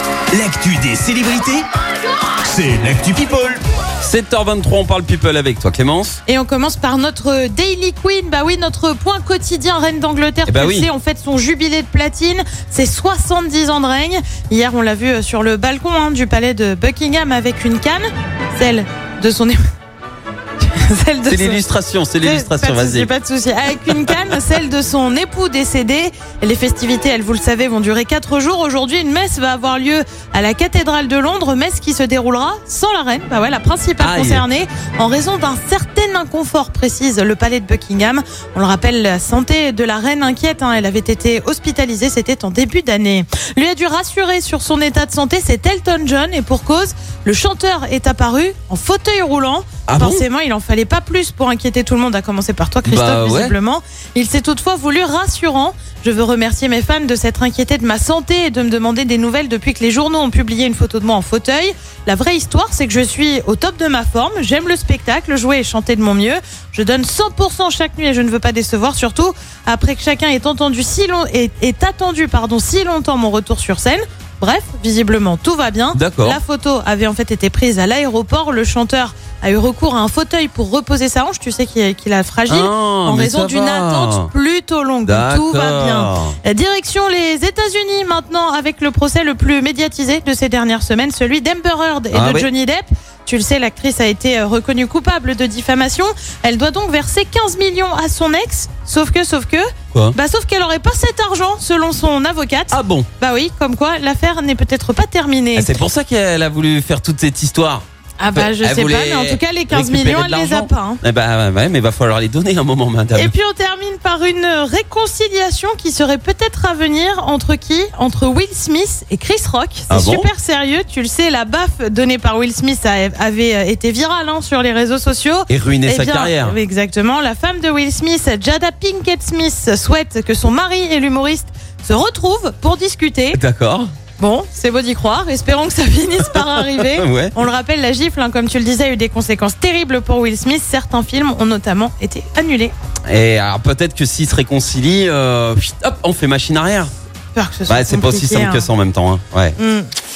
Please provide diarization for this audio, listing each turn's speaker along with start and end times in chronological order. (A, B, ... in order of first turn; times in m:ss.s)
0:00.3-0:01.6 A
0:02.4-0:03.3 A
0:03.1-0:06.2 B
0:06.3-0:19.6 C
0:10.5-0:10.9 B
0:20.6-0:21.6 C
0:21.3-0:23.1 B
0:22.2-1:45.7 C
0:23.9-0:24.3 B
0:34.0-0:34.4 B
0:49.9-0:50.2 B
0:52.8-0:53.5 B
1:15.9-1:16.4 B
1:22.5-1:24.3 B
1:25.0-1:26.3 B
1:32.1-1:32.5 B
1:42.7-1:43.1 B
1:45.5-1:53.3 B
1:48.2-1:51.0 C
1:53.2-2:13.4 C
1:59.9-2:00.3 B
2:05.5-2:06.6 B
2:13.3-2:13.9 B
2:14.2-2:22.7 C
2:16.3-2:17.3 B
2:23.1-2:26.9 B
2:27.3-2:28.7 C
2:27.7-2:29.6 B
2:29.6-2:29.9 C